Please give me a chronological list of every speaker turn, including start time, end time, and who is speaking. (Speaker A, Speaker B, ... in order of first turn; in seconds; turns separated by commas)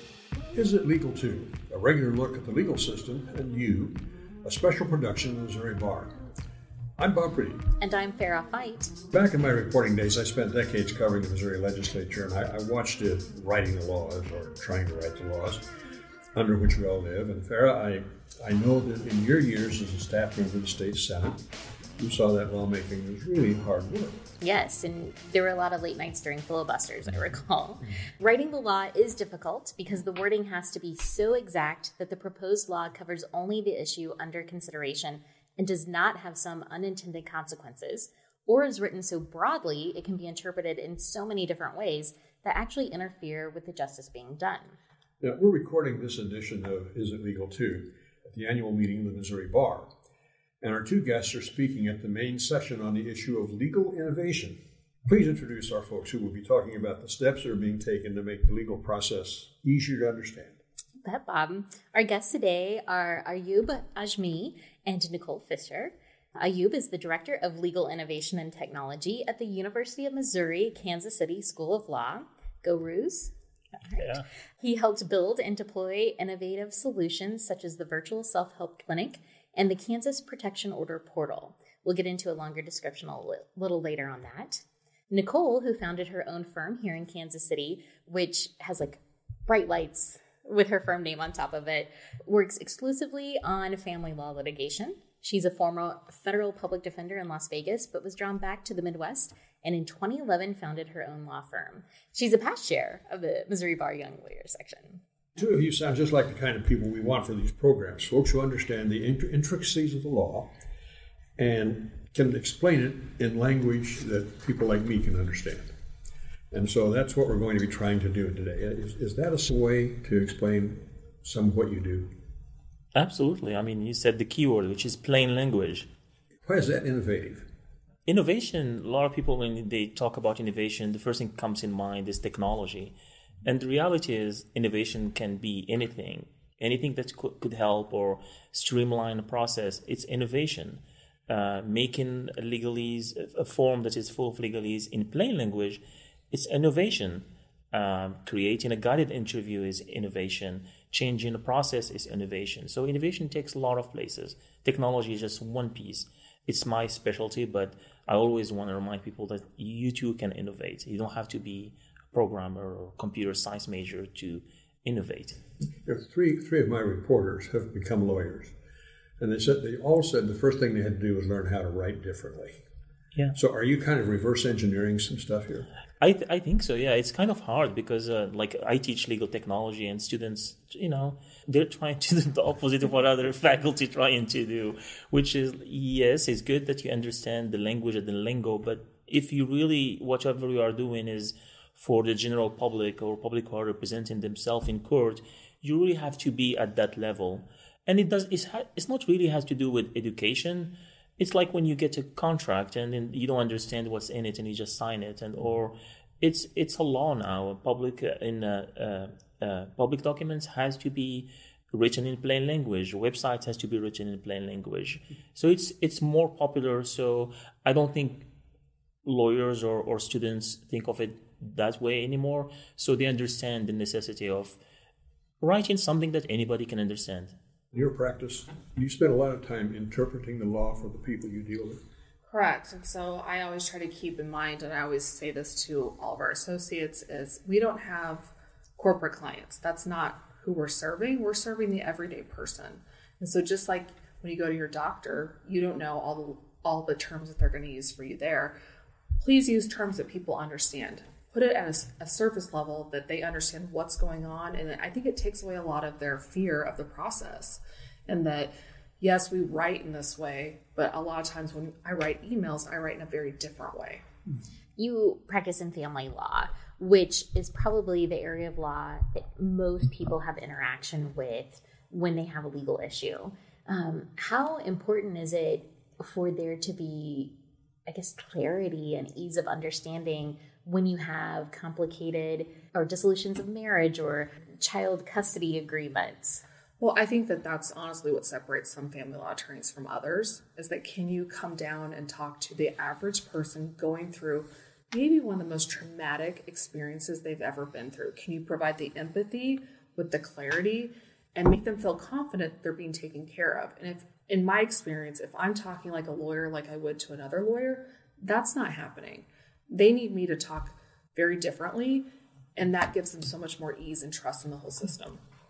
Speaker A: 0.5-6.2, Speaker A: 7.0-7.7, Speaker B: 7.8-9.0, Speaker A: 9.1-15.7, Speaker A: 16.3-21.5, Speaker A: 22.0-24.2, Speaker B: 24.4-44.8, Speaker A: 45.2-49.9, Speaker A: 50.6-60.6, Speaker B: 61.0-73.3, Speaker C: 74.0-74.2, Speaker B: 74.6-105.0, Speaker A: 105.4-110.5, Speaker A: 111.4-115.7, Speaker A: 116.5-122.1, Speaker C: 123.0-125.9, Speaker A: 126.5-127.5, Speaker C: 128.1-165.4, Speaker A: 165.8-168.5, Speaker A: 169.2-172.6, Speaker A: 173.3-175.7, Speaker C: 176.0-218.3, Speaker C: 219.1-224.6, Speaker C: 225.4-227.3, Speaker A: 227.7-231.8, Speaker D: 232.3-248.6, Speaker D: 249.2-264.0, Speaker B: 264.8-277.3, Speaker B: 277.9-286.4, Speaker D: 286.8-315.2